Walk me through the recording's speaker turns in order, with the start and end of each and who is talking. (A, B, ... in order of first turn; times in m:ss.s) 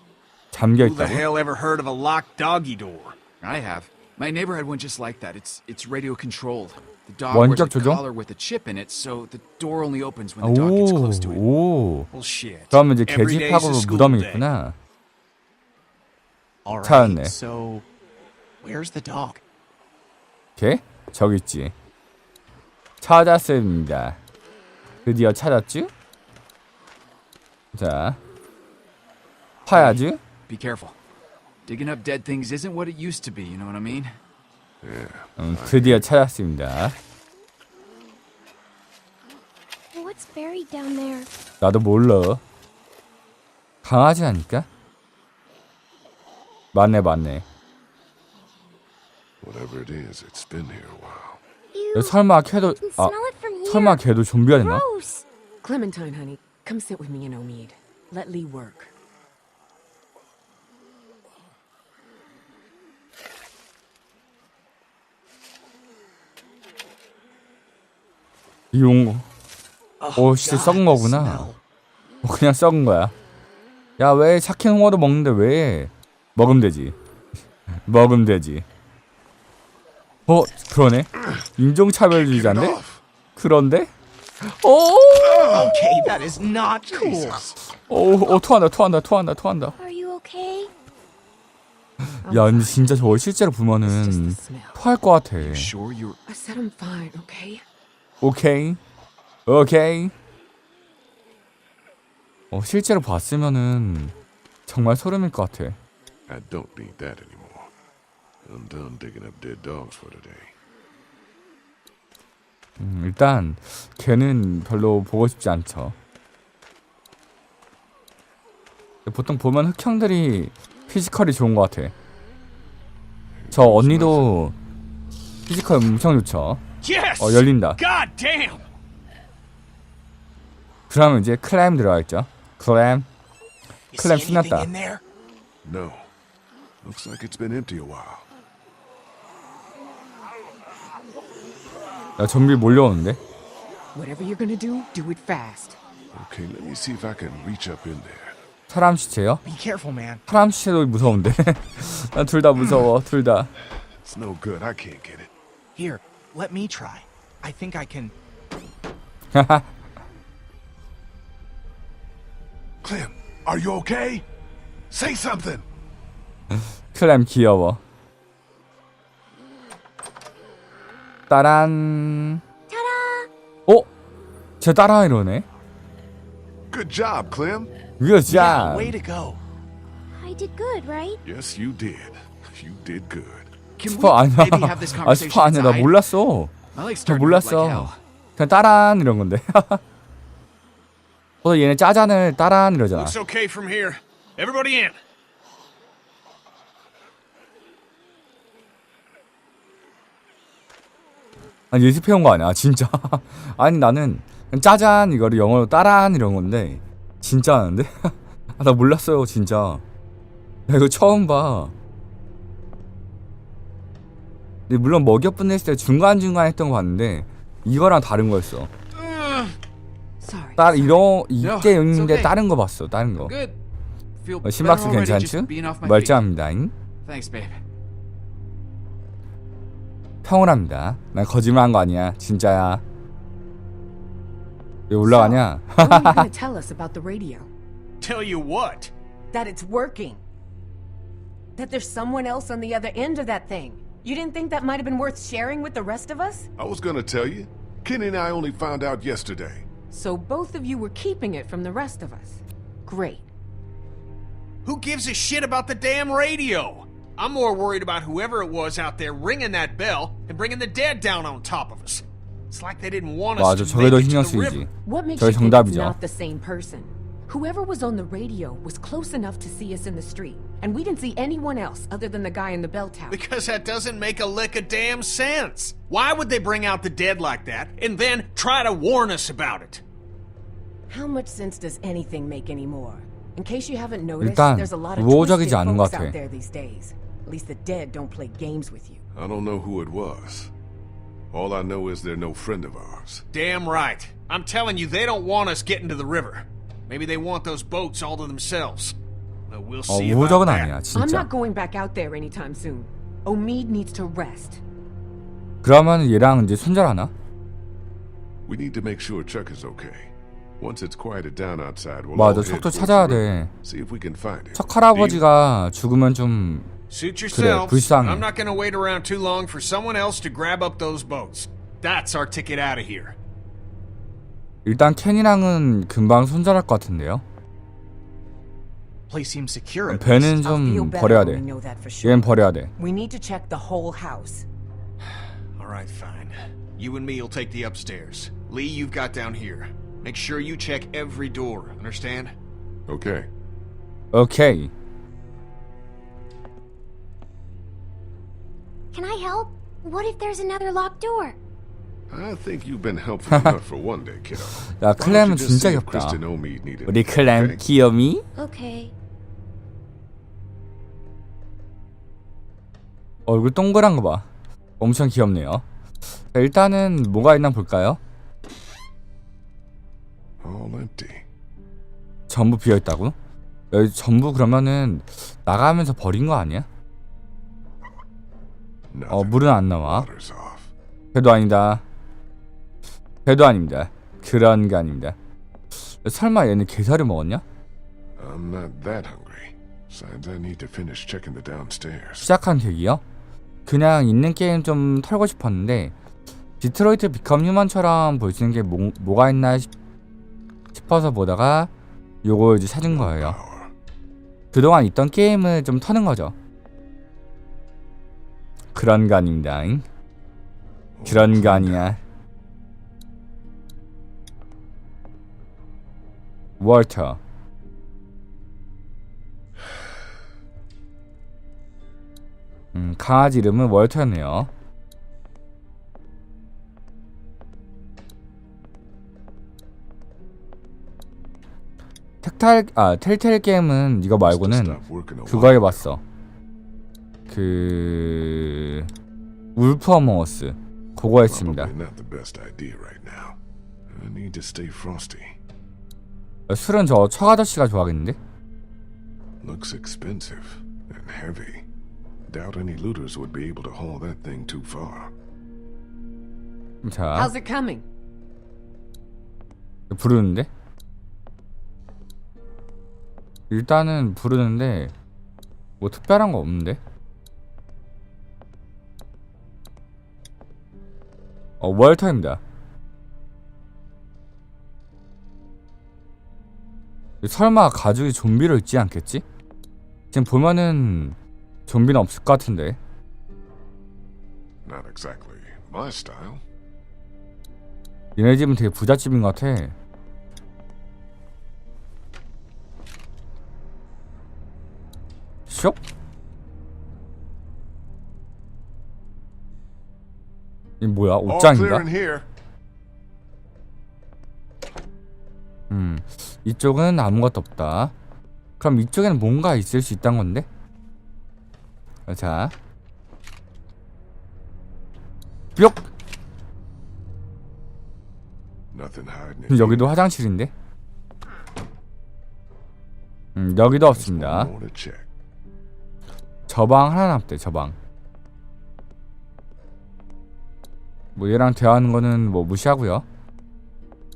0:00.5-0:01.3 A
0:00.8-0:03.2 B
0:03.4-0:11.4 C
0:07.3-0:08.0 A
0:10.4-0:12.1 A
0:12.1-0:14.5 B
0:12.7-0:14.8 A
0:16.6-0:17.9 D
0:16.8-0:17.4 A
0:18.6-0:19.4 D
0:20.6-0:21.7 A
0:23.0-0:24.2 A
0:25.1-0:25.9 A
0:27.7-0:28.2 A
0:29.7-0:30.2 A
0:29.7-0:31.0 C
0:31.7-0:34.2 C
0:34.8-0:36.1 E
0:35.4-0:37.0 A
0:39.9-0:41.3 F
0:41.6-0:42.4 A
0:43.8-0:44.7 A
0:46.7-0:47.4 A
0:49.4-0:51.4 E
0:51.7-0:54.0 F
0:51.9-0:53.1 A
0:53.7-0:54.8 A
0:54.6-0:55.2 F
0:55.6-0:58.9 G
1:08.7-1:09.3 A
1:10.0-1:11.6 D
1:10.2-1:11.5 A
1:12.2-1:13.1 A
1:14.0-1:17.0 A
1:17.8-1:18.6 A
1:20.3-1:22.8 A
1:22.1-1:23.0 E
1:23.4-1:23.9 A
1:24.4-1:25.8 A
1:25.2-1:25.8 E
1:25.5-1:27.5 D
1:26.9-1:27.6 E
1:27.9-1:29.8 A
1:29.8-1:30.7 F
1:32.2-1:35.7 A
1:32.2-1:33.0 G
1:33.8-1:34.8 G
1:35.4-1:36.2 C
1:36.3-1:37.6 G
1:38.2-1:38.8 A
1:39.5-1:40.1 A
1:42.5-1:44.1 A
1:44.7-1:45.8 A
1:46.3-1:47.7 E
1:48.4-1:50.5 E
1:52.8-1:56.0 A
1:59.1-2:01.9 A
2:03.4-2:04.3 E
2:03.5-2:04.6 A
2:05.5-2:06.6 A
2:06.8-2:08.6 B
2:07.2-2:07.8 A
2:10.9-2:13.1 A
2:13.9-2:15.0 D
2:14.0-2:14.7 A
2:15.6-2:16.1 E
2:16.8-2:18.3 E
2:22.2-2:23.2 A
2:23.9-2:25.8 G
2:26.1-2:28.4 E
2:28.7-2:29.4 A
2:29.4-2:30.2 D
2:30.3-2:33.5 A
2:34.0-2:35.3 E
2:35.8-2:38.1 D
2:39.3-2:39.7 A
2:42.8-2:44.3 E
2:44.9-2:45.7 E
2:46.9-2:47.8 A
2:51.3-2:52.4 A
2:52.7-2:53.3 F
2:54.6-2:55.5 A
2:56.7-2:57.7 E
2:58.0-2:59.0 A
2:58.3-2:59.4 D
3:00.1-3:01.2 F
3:01.2-3:03.5 E
3:03.8-3:06.0 C
3:03.8-3:06.5 A
3:06.7-3:08.0 C
3:07.1-3:09.8 A
3:11.4-3:13.2 A
3:12.9-3:15.0 B
3:21.7-3:29.8 A
3:30.7-3:31.7 A
3:34.7-3:38.7 A
3:39.0-3:39.5 C
3:40.2-3:41.0 G
3:40.6-3:43.4 A
3:41.4-3:42.4 C
3:43.2-3:43.6 C
3:44.2-3:46.2 C
3:44.4-3:46.7 A
3:47.0-3:47.6 C
3:50.2-3:52.8 A
3:54.9-3:56.3 A
3:55.0-3:57.5 G
3:58.0-3:58.9 B
3:59.3-4:00.2 G
4:01.6-4:06.5 G
4:06.6-4:09.6 E
4:09.9-4:13.3 G
4:14.6-4:24.6 B
4:23.4-4:26.0 A
4:24.8-4:33.2 G
4:33.1-4:39.8 B
4:40.9-4:49.0 G
4:44.2-4:46.2 A
4:49.2-4:50.5 E
4:51.3-4:53.2 E
4:53.3-4:59.0 B
4:59.5-5:00.8 B
4:59.9-5:01.3 A
5:00.9-5:04.6 G
5:05.6-5:07.1 A
5:08.5-5:15.2 E
5:12.2-5:13.5 A
5:14.6-5:16.7 A
5:16.9-5:23.2 B
5:17.3-5:18.3 A
5:24.6-5:27.2 A
5:29.1-5:30.4 D
5:29.9-5:31.4 A
5:30.4-5:34.5 G
5:32.0-5:32.7 A
5:35.6-5:42.3 B
5:42.9-5:43.3 E
5:44.1-5:44.7 A
5:48.9-5:51.4 F
5:52.1-5:57.6 E
5:54.7-5:56.2 A
5:56.9-5:58.3 A
5:58.4-5:58.9 F
6:03.3-6:04.3 A
6:04.8-6:05.6 A
6:06.3-6:08.0 A
6:10.4-6:11.3 E
6:12.3-6:13.2 A
6:13.7-6:16.7 A
6:18.9-6:20.7 E
6:19.1-6:20.1 A
6:21.1-6:21.8 A
6:23.2-6:25.2 A
6:26.0-6:27.4 A
6:28.2-6:32.3 E
6:32.2-6:33.0 A
6:33.7-6:35.9 A
6:36.6-6:39.7 A
6:40.7-6:41.7 A
6:42.2-6:43.4 A
6:42.8-6:43.7 E
6:44.5-6:46.3 A
6:48.7-6:49.8 A
6:51.0-6:51.9 E
6:51.0-6:52.0 A
6:56.6-6:57.2 A
7:02.7-7:04.5 A
7:12.2-7:16.0 A
7:14.2-7:15.9 E
7:17.3-7:18.9 A
7:19.6-7:21.7 A
7:21.2-7:23.4 E
7:23.9-7:25.4 E
7:26.5-7:28.2 A
7:29.4-7:31.7 E
7:32.3-7:35.1 E
7:36.8-7:37.3 A
7:37.2-7:37.8 G
7:39.9-7:40.5 A
7:43.5-7:44.9 A
7:45.8-7:46.8 A
7:51.6-7:52.4 A
7:57.2-7:59.2 A
8:00.1-8:01.2 A
8:01.7-8:02.8 A
8:04.6-8:06.4 E
8:08.2-8:09.8 A
8:15.5-8:15.8 A
8:20.8-8:21.9 A
8:21.2-8:22.3 E
8:25.7-8:27.9 A
8:28.6-8:30.5 A
8:32.1-8:32.5 A
8:35.6-8:35.9 A
8:38.7-8:40.1 E
8:39.5-8:40.5 A
8:43.4-8:44.5 A
8:43.9-8:45.1 E
8:46.5-8:47.8 A
8:51.2-8:53.1 A